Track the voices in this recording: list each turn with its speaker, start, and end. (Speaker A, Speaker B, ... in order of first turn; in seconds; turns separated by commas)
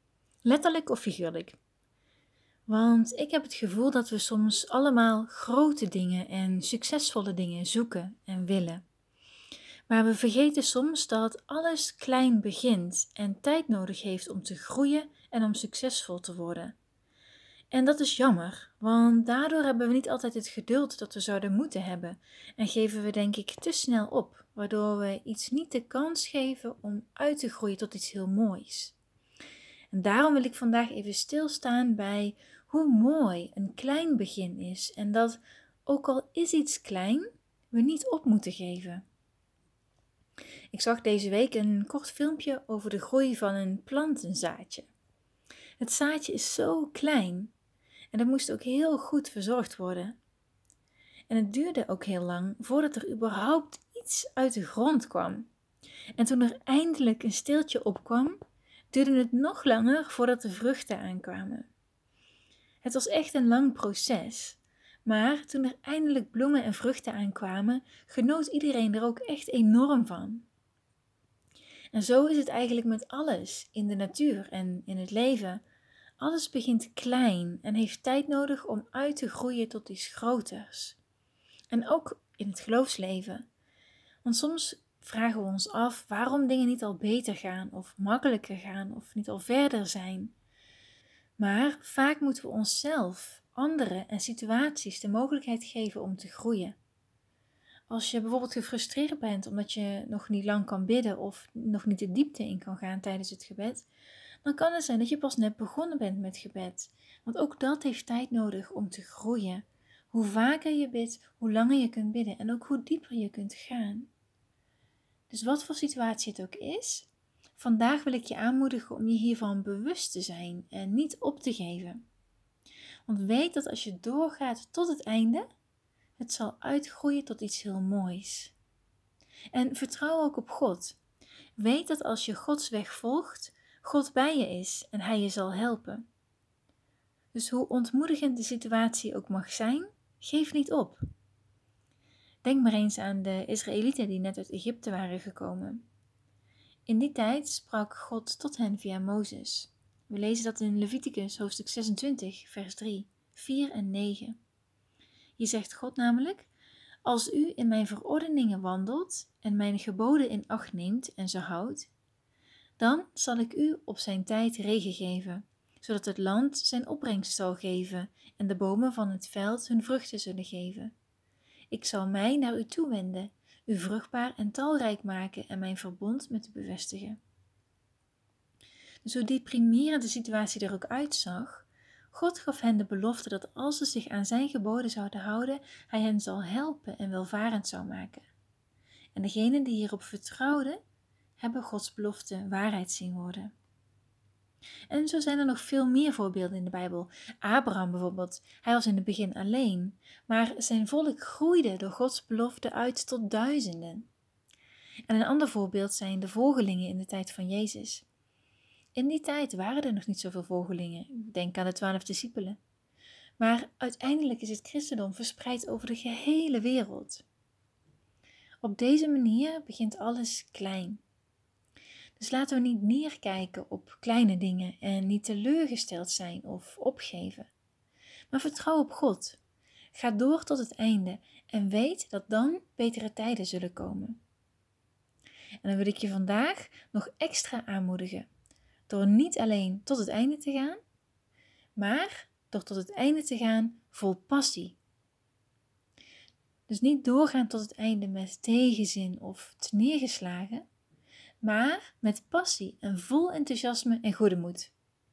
Speaker A: 0.4-1.6, Speaker A: 2.7-8.8, Speaker A: 9.9-16.8, Speaker A: 17.7-29.0, Speaker A: 29.9-39.0, Speaker A: 40.7-44.9, Speaker A: 45.8-47.5, Speaker A: 48.1-50.2, Speaker A: 51.3-55.5, Speaker A: 56.2-58.4, Speaker A: 58.9-61.7, Speaker A: 62.8-70.5, Speaker A: 71.9-75.6, Speaker A: 76.2-81.0, Speaker A: 81.7-83.5, Speaker A: 84.2-90.3, Speaker A: 91.4-96.8, Speaker A: 97.9-103.9, Speaker A: 104.4-114.1, Speaker A: 115.3-122.0, Speaker A: 123.1-125.5, Speaker A: 126.2-128.5, Speaker A: 129.5-131.0, Speaker A: 131.6-136.1, Speaker A: 137.3-141.0, Speaker A: 142.4-145.8, Speaker A: 146.9-154.4, Speaker A: 155.4-156.5, Speaker A: 157.0-161.9, Speaker A: 162.8-170.9, Speaker A: 171.7-177.2, Speaker A: 179.0-188.3, Speaker A: 189.2-190.8, Speaker A: 191.4-193.5, Speaker A: 194.9-204.1, Speaker A: 205.1-208.1, Speaker A: 208.9-212.6, Speaker A: 213.4-217.2, Speaker A: 218.6-221.0, Speaker A: 222.2-227.5, Speaker A: 228.3-229.4, Speaker A: 229.9-234.2, Speaker A: 235.6-238.3, Speaker A: 238.9-240.8, Speaker A: 241.8-244.8, Speaker A: 246.7-250.7, Speaker A: 251.4-254.7